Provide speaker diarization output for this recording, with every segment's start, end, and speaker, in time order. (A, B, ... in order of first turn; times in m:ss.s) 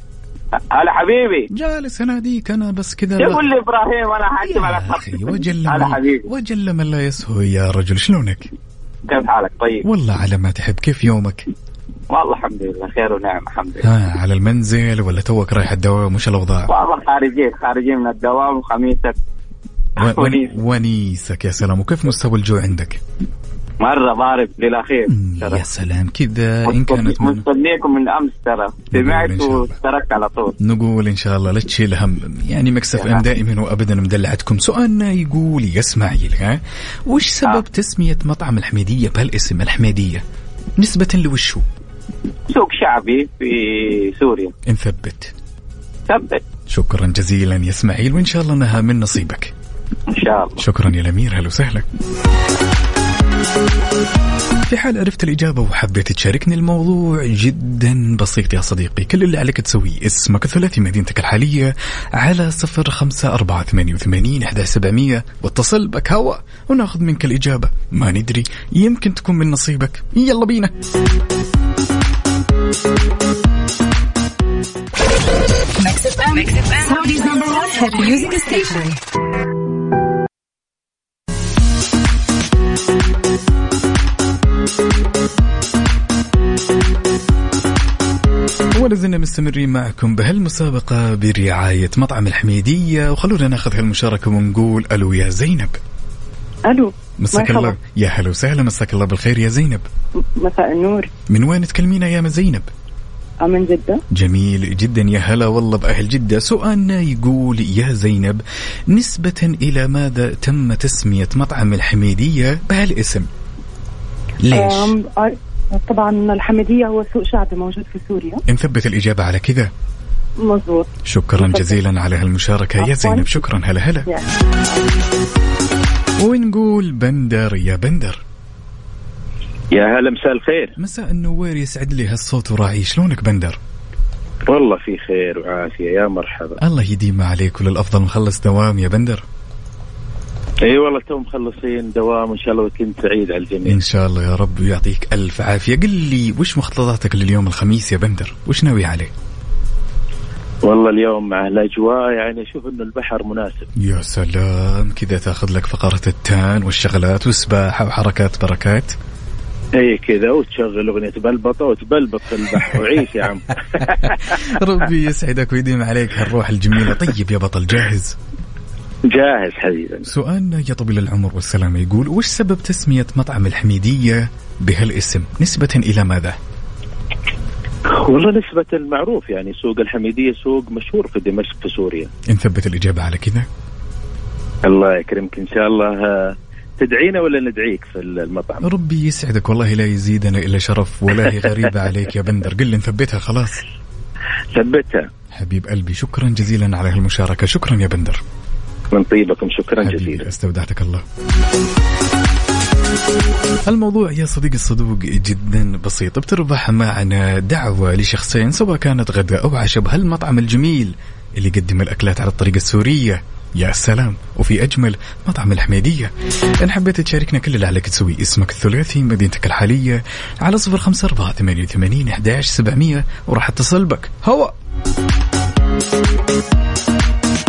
0:00.7-0:01.5 A
0:01.5-0:03.5 B
0:03.2-0:06.3 A
0:04.4-0:08.5 B
0:09.1-0:09.8 A
0:09.8-0:11.5 B
0:12.1-0:13.9 A
0:13.8-0:16.7 B
0:16.7-0:19.1 A
0:20.0-0:23.0 B
0:20.0-0:20.5 A
0:23.8-0:25.6 A
0:25.1-0:27.4 B
0:26.7-0:30.5 A
0:28.9-0:29.8 B
0:30.6-0:40.2 B
0:33.0-0:33.2 A
0:40.8-0:41.6 B
0:42.5-0:44.5 A
0:44.7-0:45.3 B
0:46.1-0:46.4 A
0:46.7-0:49.5 B
0:50.1-0:50.6 A
0:50.6-0:51.8 B
0:54.7-1:10.7 B
1:15.8-1:19.0 C
1:28.7-1:35.8 B
1:36.7-1:37.7 D
1:37.2-1:39.8 B
1:40.4-1:41.1 D
1:41.3-1:42.7 B
1:43.4-1:44.0 D
1:44.1-1:53.3 B
1:54.4-1:54.9 B
1:54.5-1:58.4 D
1:58.5-1:59.7 B
2:00.4-2:01.7 D
2:01.0-2:04.1 B
2:02.8-2:03.4 D
2:06.2-2:08.2 B
2:09.7-2:10.7 E
2:10.8-2:13.6 B
2:14.5-2:16.6 E
2:16.6-2:19.2 B
2:20.6-2:23.8 E
2:23.6-2:29.1 B
2:30.6-2:33.7 E
2:33.8-2:38.9 B
2:39.8-2:44.4 E
2:44.3-2:48.2 B
2:49.1-2:50.0 E
2:50.0-2:56.4 B
2:57.9-3:02.1 E
3:02.3-3:03.5 B
3:04.6-3:08.7 E
3:08.6-3:13.6 B
3:14.5-3:15.0 E
3:15.3-3:18.2 B
3:18.9-3:20.2 E
3:19.8-3:21.0 B
3:23.7-3:36.1 B
3:36.6-3:44.5 B